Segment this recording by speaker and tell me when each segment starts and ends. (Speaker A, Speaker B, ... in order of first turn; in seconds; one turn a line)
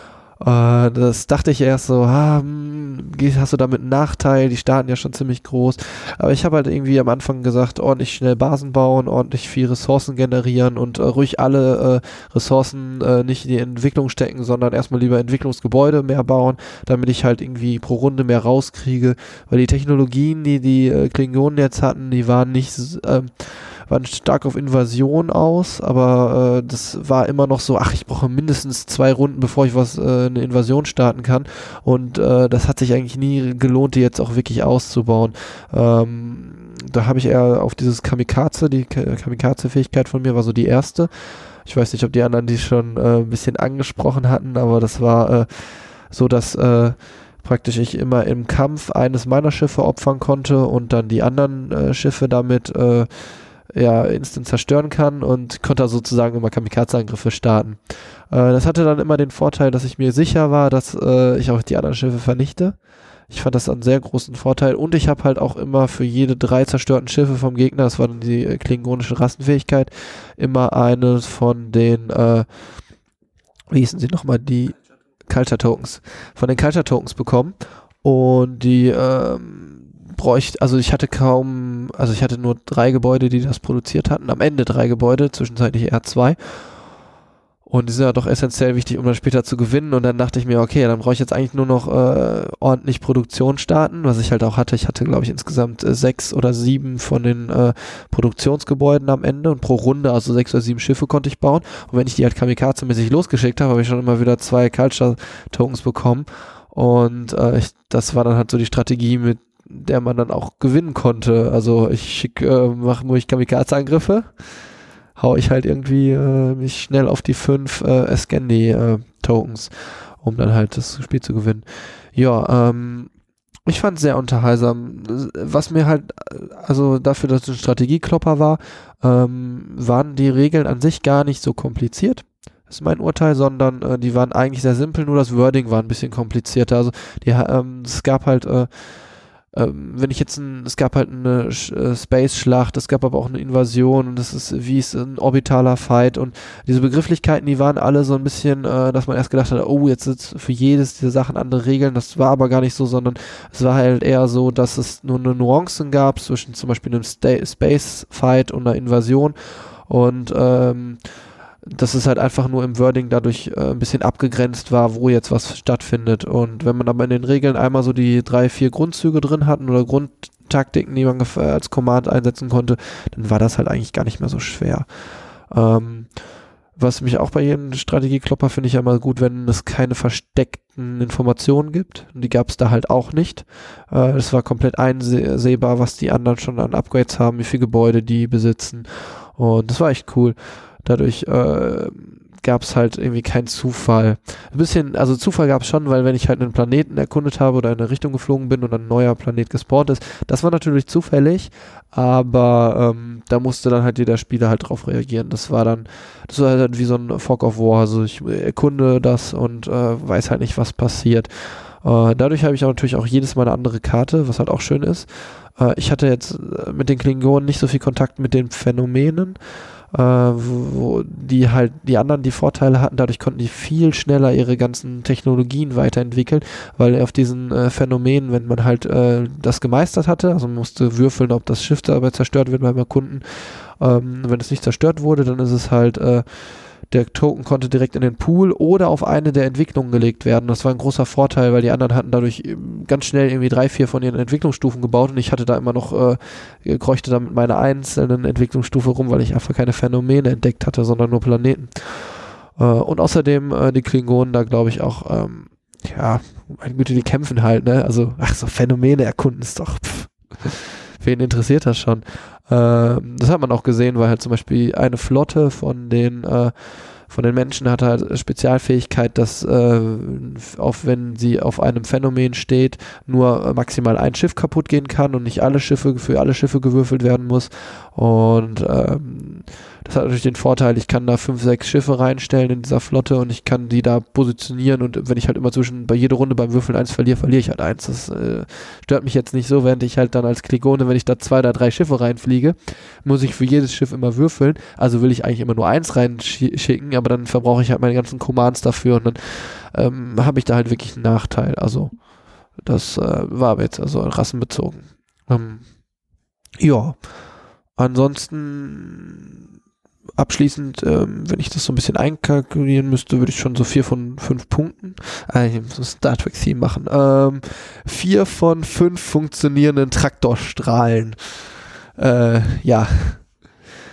Speaker A: 0.4-41.1
Speaker A: 41.6-53.1
Speaker A: 53.7-62.8
Speaker A: 63.3-72.5
Speaker A: 73.7-86.4
Speaker A: 87.7-114.3
Speaker A: 115.2-123.1
Speaker A: 123.7-138.7
Speaker A: 139.5-159.3
Speaker A: 159.9-161.0
Speaker A: 161.7-174.9
Speaker A: 175.5-176.1
Speaker A: 176.8-211.3
Speaker A: 211.8-219.4
Speaker A: 219.9-233.2
Speaker A: 233.8-236.3
Speaker A: 236.9-266.5
Speaker A: 267.1-301.9
Speaker A: 302.6-305.6
Speaker A: 306.6-307.0
Speaker A: 307.8-309.4
Speaker A: 310.2-321.2
Speaker A: 322.0-323.2